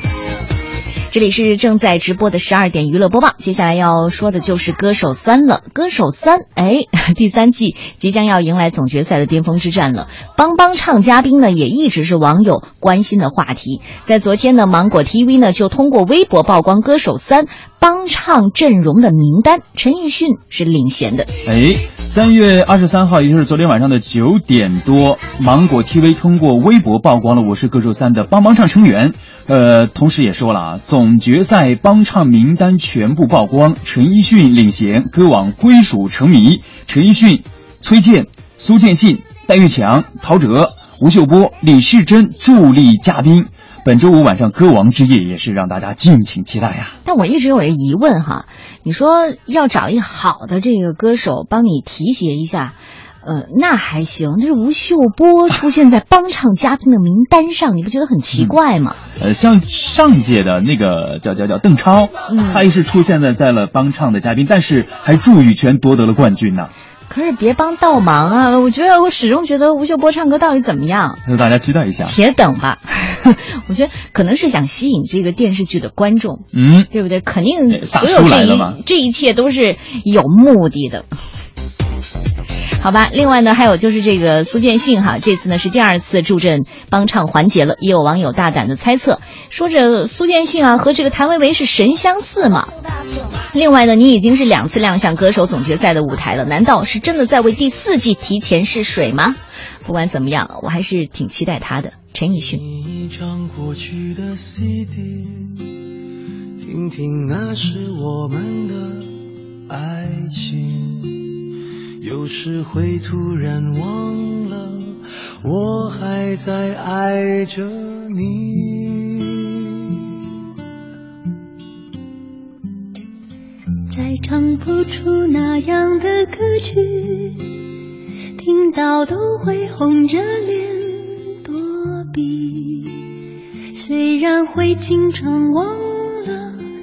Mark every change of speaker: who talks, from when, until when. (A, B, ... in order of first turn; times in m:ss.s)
0:01.1-0:21.3 A
0:21.4-0:47.0 B
0:47.0-0:59.0 A
0:59.2-1:06.7 B
1:02.3-1:02.6 A
1:07.1-1:11.2 A
1:11.2-1:12.1 B
1:12.0-1:21.0 A
1:16.5-1:16.9 B
1:17.7-1:18.8 B
1:22.8-1:32.7 A
1:33.5-1:42.6 A
1:42.5-1:45.7 C
1:46.6-1:49.1 C
1:49.7-1:51.3 C
1:52.0-2:00.1 C
2:03.9-2:07.5 D
2:08.4-2:13.0 D
2:13.7-2:16.6 D